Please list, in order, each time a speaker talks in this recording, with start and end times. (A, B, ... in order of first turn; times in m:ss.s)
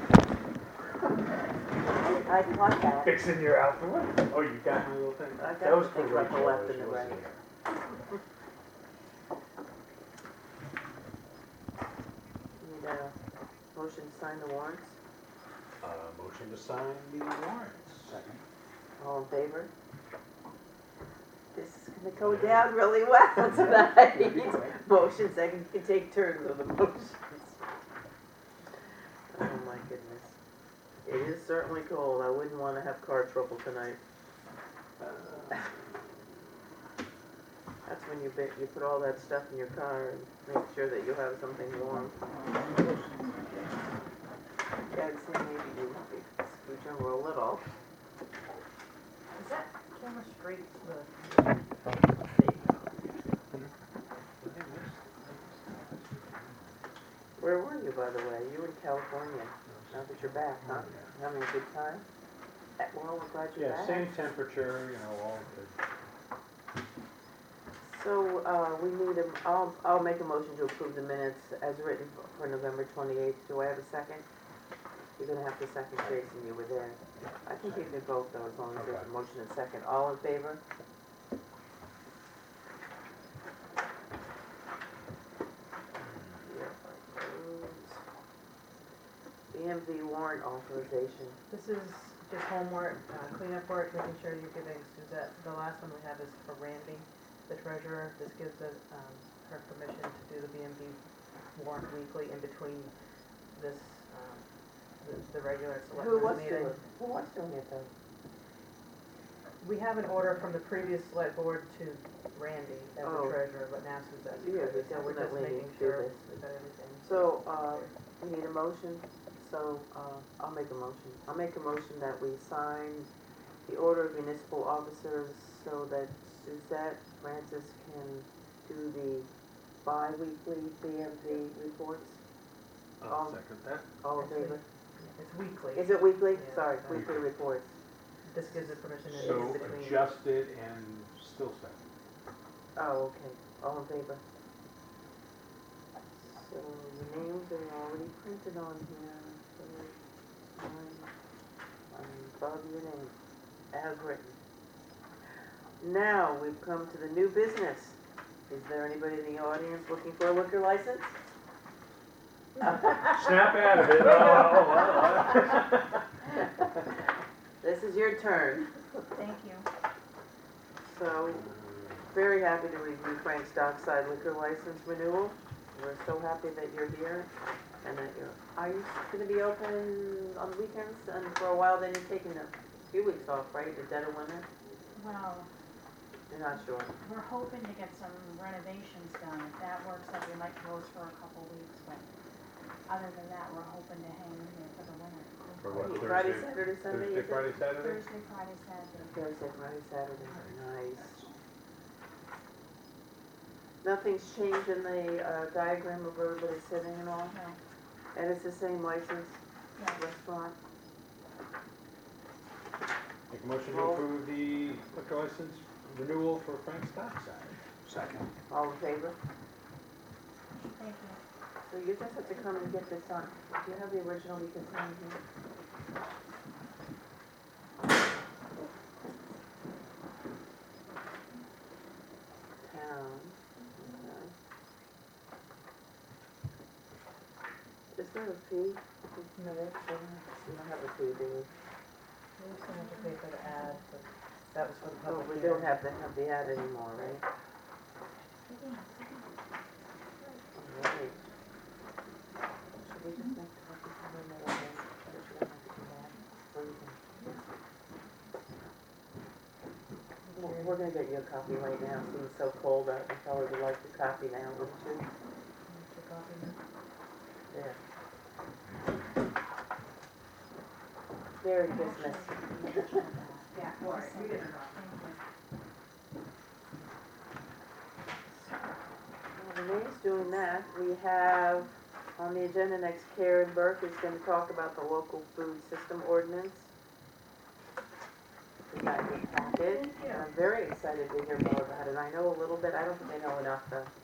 0:02.1-0:03.2 A
0:03.0-0:07.4 B
0:05.4-0:07.2 A
0:12.6-0:13.1 A
0:13.7-0:15.0 A
0:15.8-0:18.4 B
0:19.0-0:19.7 A
0:21.5-0:27.6 A
0:22.2-0:22.7 B
0:24.1-0:24.8 B
0:29.3-0:30.4 A
0:31.0-0:34.0 A
0:35.0-0:35.6 B
0:37.8-0:42.2 A
0:42.5-0:43.5 B
0:44.9-0:47.6 A
0:49.4-0:51.7 C
0:52.3-0:52.9 C
0:54.4-0:56.8 B
0:57.4-1:02.0 A
0:59.7-1:01.1 B
1:02.8-1:04.1 A
1:03.6-1:05.7 B
1:07.8-1:14.2 A
1:15.2-1:20.6 A
1:17.6-1:18.0 B
1:18.7-1:19.1 B
1:26.4-1:28.0 A
1:29.5-1:31.4 A
1:31.5-1:41.0 C
1:41.5-1:42.9 C
1:43.5-1:44.5 C
1:45.0-1:46.8 C
1:45.9-1:47.9 A
1:49.6-1:57.9 C
1:53.0-1:53.4 A
1:54.3-1:56.2 A
1:57.0-2:03.1 A
2:03.6-2:09.3 A
2:09.8-2:12.2 A
2:13.0-2:13.9 B
2:13.1-2:13.4 A
2:14.0-2:14.6 A
2:14.1-2:17.0 C
2:15.7-2:17.7 A
2:16.9-2:17.3 B
2:18.2-2:20.1 C
2:19.1-2:21.9 B
2:19.1-2:19.6 A
2:22.7-2:24.2 A
2:26.2-2:30.0 A
2:30.6-2:31.1 A
2:31.9-2:33.1 A
2:33.7-2:34.4 A
2:35.8-2:38.0 A
2:38.5-2:41.1 A
2:42.7-2:46.0 B
2:47.6-2:48.7 A
2:49.1-2:49.7 D
2:50.8-2:51.5 A
2:51.2-2:52.1 B
2:52.1-2:57.3 A
2:57.8-3:04.4 A
3:04.9-3:05.5 D
3:06.3-3:06.9 A
3:07.0-3:12.1 D
3:12.9-3:16.1 D
3:15.6-3:18.1 B
3:15.7-3:17.5 A
3:17.7-3:19.2 D
3:19.1-3:21.2 A
3:20.2-3:21.3 B
3:23.8-3:27.3 A
3:27.3-3:27.6 D
3:28.1-3:29.4 A
3:29.9-3:30.6 A
3:33.3-3:38.3 B
3:33.7-3:34.0 A
3:38.5-3:39.2 A
3:40.5-3:41.2 D
3:41.7-3:45.2 A
3:52.6-3:54.3 A
3:57.9-4:01.5 A
3:59.3-3:59.8 C
4:02.4-4:05.8 C
4:02.7-4:03.8 D
4:05.0-4:07.2 A
4:08.4-4:09.4 D
4:10.5-4:11.2 A
4:12.8-4:17.0 A
4:20.2-4:20.8 C
4:20.3-4:25.0 A
4:25.7-4:26.6 C
4:27.5-4:27.8 A
4:31.4-4:32.9 A
4:31.6-4:35.2 D
4:33.5-4:34.8 C
4:39.3-4:46.7 A
4:48.7-4:53.9 A
4:49.3-4:50.3 D